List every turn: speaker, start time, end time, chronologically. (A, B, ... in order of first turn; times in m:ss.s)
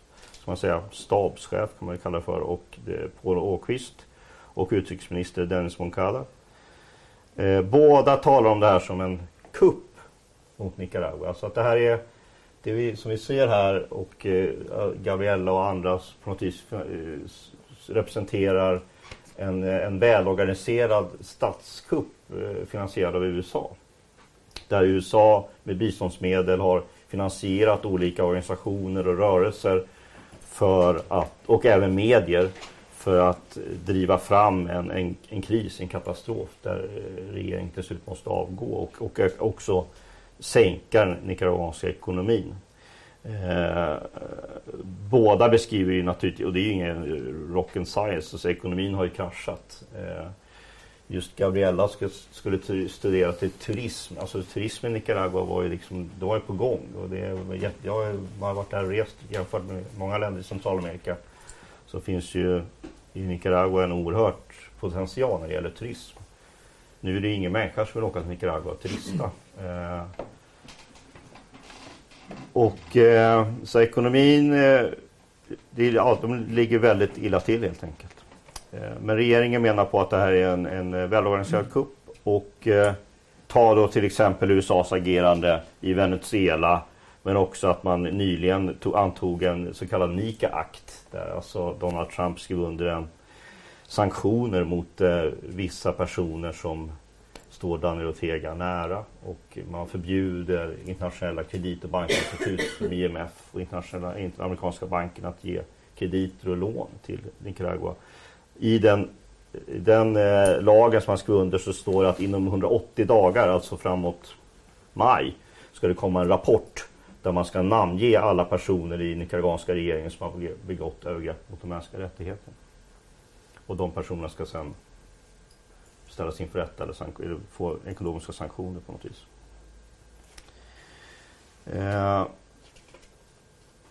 0:00.4-0:06.3 A
0:07.4-0:10.0 A
0:10.6-0:12.0 A
0:12.6-0:18.8 A
0:19.4-0:23.8 A
0:24.7-0:29.8 A
0:30.5-0:42.6 A
0:43.2-0:50.4 A
0:51.1-1:01.2 A
1:01.9-1:06.2 A
1:07.0-1:10.1 A
1:12.5-1:15.0 A
1:15.7-1:33.1 A
1:33.9-1:36.9 A
1:37.5-1:48.0 A
1:48.6-1:54.4 A
1:55.0-2:02.6 A
2:03.7-2:04.8 A
2:06.1-2:09.3 A
2:11.7-2:12.3 A